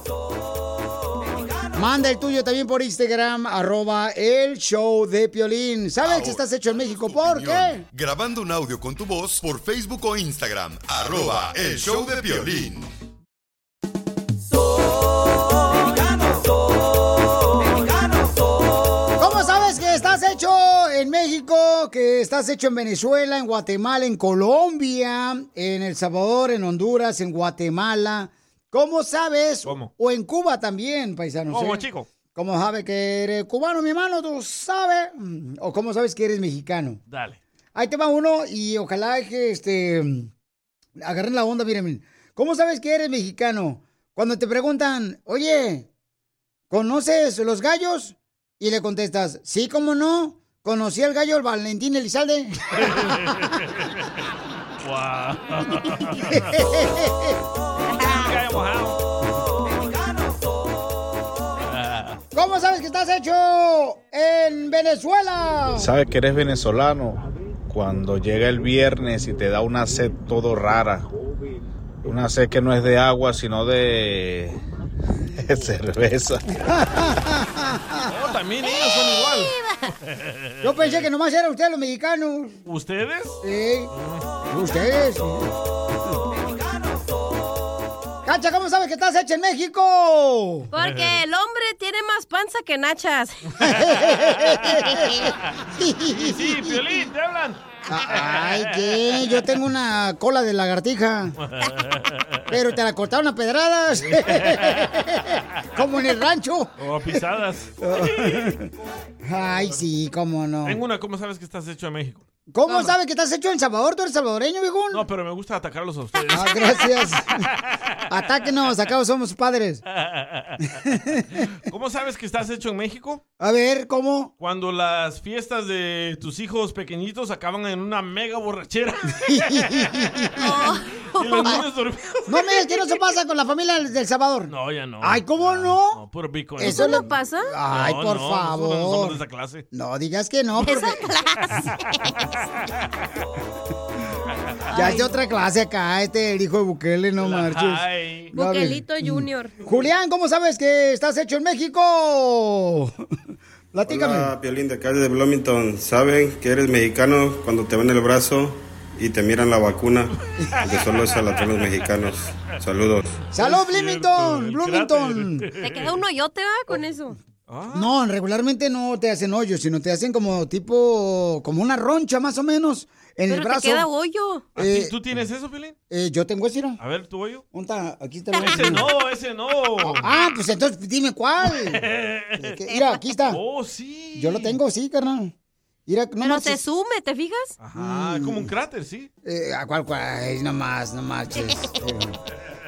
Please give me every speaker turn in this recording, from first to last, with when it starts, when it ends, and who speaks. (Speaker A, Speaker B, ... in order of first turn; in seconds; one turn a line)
Speaker A: 1.8-7.8
Speaker B: 6.0-6.4
Speaker B: 7.0-12.9
Speaker A: 19.2-37.0
Speaker C: 29.6-29.9
Speaker C: 31.5-32.1
Speaker C: 37.1-37.4
Speaker A: 37.8-40.3
Speaker A: 41.0-45.9
Speaker A: 46.7-53.2
Speaker C: 52.8-53.9
Speaker C: 54.8-56.6
Speaker A: 56.3-57.4
Speaker D: 57.9-58.3
Speaker C: 58.0-59.0
Speaker C: 61.6-62.2
Speaker A: 62.3-65.9
Speaker E: 65.8-71.1
Speaker E: 72.0-74.6
Speaker E: 75.3-76.4
Speaker A: 76.6-78.1
Speaker C: 78.0-79.5
Speaker D: 78.6-79.8
Speaker C: 80.1-81.1
Speaker A: 80.6-82.6
Speaker C: 82.7-83.4
Speaker A: 83.4-83.9
Speaker C: 84.0-84.2
Speaker A: 84.5-85.5
Speaker A: 88.2-90.7
Speaker D: 90.7-93.4
Speaker C: 90.8-91.2
Speaker A: 93.6-97.0
Speaker C: 94.0-95.5
Speaker C: 96.0-99.4
Speaker A: 97.9-101.4
Speaker C: 101.4-102.6
Speaker A: 102.5-106.8
Speaker C: 104.1-104.9
Speaker C: 106.8-108.6
Speaker A: 107.8-108.7
Speaker A: 109.2-110.8
Speaker C: 110.6-112.3
Speaker A: 112.5-115.0
Speaker D: 112.7-112.9
Speaker C: 114.9-117.1
Speaker A: 116.3-117.4
Speaker A: 118.1-119.8
Speaker C: 120.0-120.8
Speaker A: 120.8-121.3
Speaker C: 121.4-123.2
Speaker A: 123.4-124.3
Speaker C: 124.4-132.4
Speaker A: 129.2-130.6
Speaker D: 130.4-131.7
Speaker A: 132.3-136.0
Speaker C: 134.5-137.1
Speaker A: 136.6-139.2
Speaker D: 136.6-137.5
Speaker C: 137.7-139.7
Speaker A: 139.7-141.1
Speaker D: 140.6-142.3
Speaker D: 144.7-145.2
Speaker A: 144.7-153.1
Speaker C: 147.2-148.3
Speaker D: 148.3-149.5
Speaker A: 153.7-154.3
Speaker F: 153.9-160.1
Speaker C: 160.4-161.6
Speaker F: 160.6-163.1
Speaker A: 163.3-165.5
Speaker C: 163.3-166.0
Speaker D: 165.6-167.2
Speaker C: 167.5-167.9
Speaker A: 167.7-173.9
Speaker D: 173.3-174.5
Speaker A: 174.6-174.9
Speaker C: 174.6-175.8
Speaker A: 175.9-176.8
Speaker C: 176.8-177.4
Speaker A: 177.5-178.9
Speaker C: 178.3-180.1
Speaker D: 178.4-178.6
Speaker A: 179.9-181.8
Speaker C: 181.5-182.6
Speaker A: 182.4-183.4
Speaker C: 183.3-184.6
Speaker A: 184.2-185.3
Speaker A: 185.9-186.6
Speaker D: 186.2-187.6
Speaker C: 187.6-189.1
Speaker A: 187.8-188.5
Speaker A: 189.2-192.2